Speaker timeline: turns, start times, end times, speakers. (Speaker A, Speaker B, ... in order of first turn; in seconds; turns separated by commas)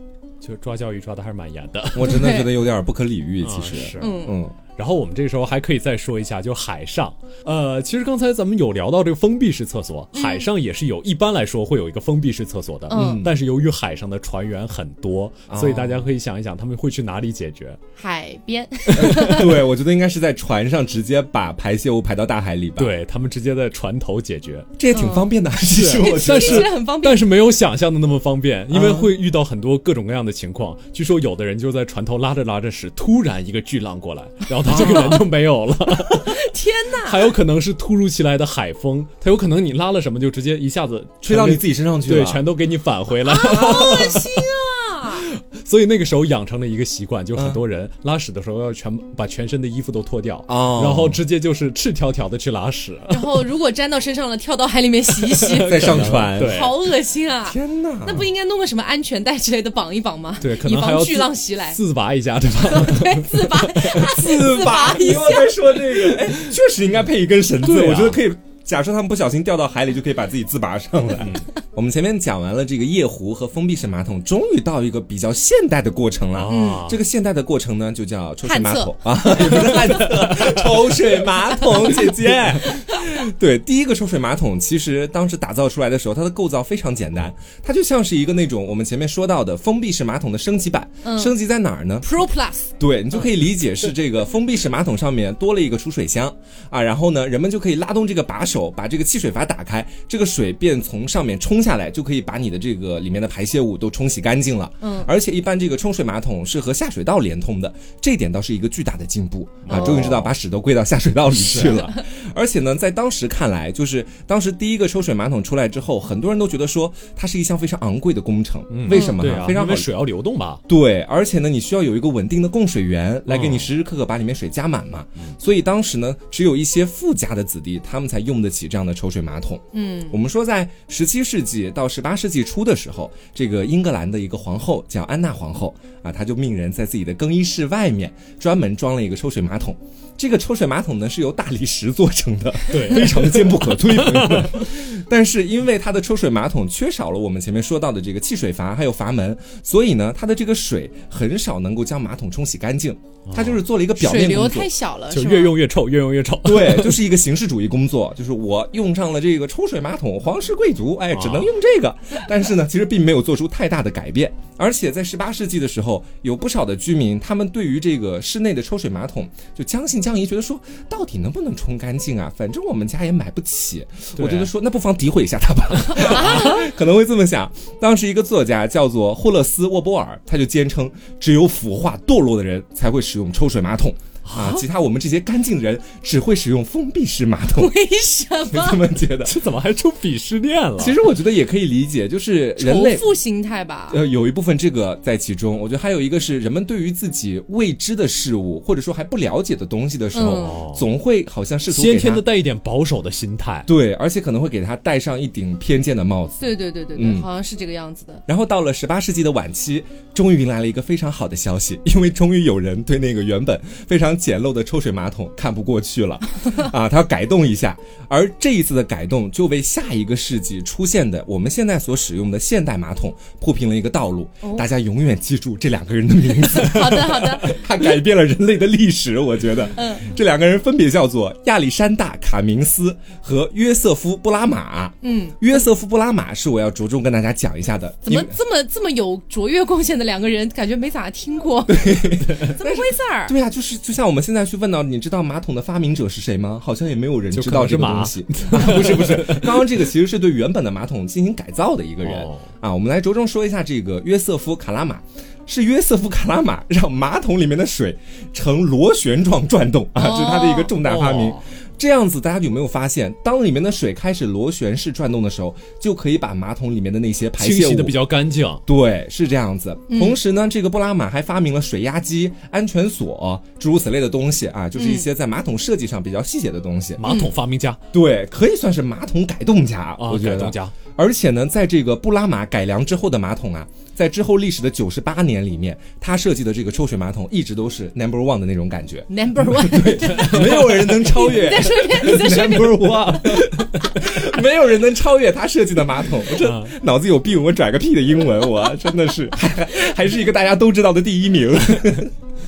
Speaker A: 0.4-2.4, Speaker B: 1.9-4.5, Speaker C: 2.0-2.5, Speaker A: 3.4-17.8, Speaker C: 4.0-4.3, Speaker C: 10.1-10.5, Speaker C: 12.9-13.3, Speaker B: 12.9-13.3, Speaker B: 15.5-16.1, Speaker C: 18.0-19.5, Speaker B: 18.9-22.9, Speaker A: 19.0-19.4, Speaker A: 22.8-24.7, Speaker B: 24.8-26.7, Speaker C: 24.9-25.3, Speaker A: 25.6-36.5, Speaker C: 25.9-27.2, Speaker B: 28.7-29.1, Speaker B: 34.6-35.2, Speaker C: 34.7-35.2, Speaker C: 36.1-37.3, Speaker A: 37.0-44.5, Speaker B: 41.2-42.4, Speaker C: 43.2-45.3, Speaker B: 43.5-44.1, Speaker A: 45.1-53.5, Speaker B: 47.4-47.6, Speaker B: 50.5-51.2, Speaker C: 53.1-61.8, Speaker A: 55.3-56.8, Speaker B: 55.7-56.7, Speaker B: 57.4-58.3, Speaker A: 60.4-64.1, Speaker C: 62.6-66.1, Speaker B: 63.9-92.1, Speaker A: 67.6-68.2, Speaker A: 71.2-71.5, Speaker A: 76.4-77.0, Speaker C: 76.5-76.9, Speaker C: 78.4-79.7, Speaker A: 79.5-81.0, Speaker C: 91.0-91.3, Speaker C: 92.0-92.7, Speaker B: 92.8-119.9, Speaker C: 104.8-105.1, Speaker A: 109.6-110.3, Speaker C: 109.7-110.2, Speaker A: 111.5-111.8, Speaker A: 118.7-120.6, Speaker C: 118.9-119.2, Speaker B: 120.7-154.7, Speaker A: 123.3-123.7, Speaker C: 129.7-130.2, Speaker A: 142.7-144.7, Speaker A: 153.3-153.6, Speaker C: 154.0-155.6, Speaker A: 155.1-157.0, Speaker B: 156.4-187.7, Speaker A: 161.1-161.5, Speaker A: 174.2-174.5, Speaker C: 175.9-176.6, Speaker A: 184.2-184.6, Speaker C: 187.5-188.9, Speaker B: 188.5-189.4, Speaker A: 189.2-191.0, Speaker B: 190.8-193.1, Speaker C: 192.6-194.0, Speaker B: 193.9-202.2, Speaker C: 200.1-200.6, Speaker A: 200.3-200.9, Speaker A: 201.7-203.7, Speaker B: 203.7-207.3, Speaker C: 206.4-208.2, Speaker B: 208.3-238.3, Speaker C: 224.4-224.7, Speaker C: 226.4-227.6, Speaker C: 229.8-230.1, Speaker C: 235.0-235.6, Speaker C: 238.0-243.3, Speaker B: 241.7-268.0, Speaker A: 247.3-249.8, Speaker A: 252.0-252.5, Speaker C: 259.9-260.7, Speaker A: 260.8-261.4, Speaker A: 267.4-268.6, Speaker B: 268.6-277.0, Speaker C: 269.9-270.2, Speaker C: 274.8-275.0, Speaker A: 277.0-277.8, Speaker C: 277.0-277.3, Speaker B: 277.9-302.1, Speaker A: 280.0-280.7, Speaker C: 289.1-293.9, Speaker A: 290.1-290.9, Speaker A: 296.3-296.7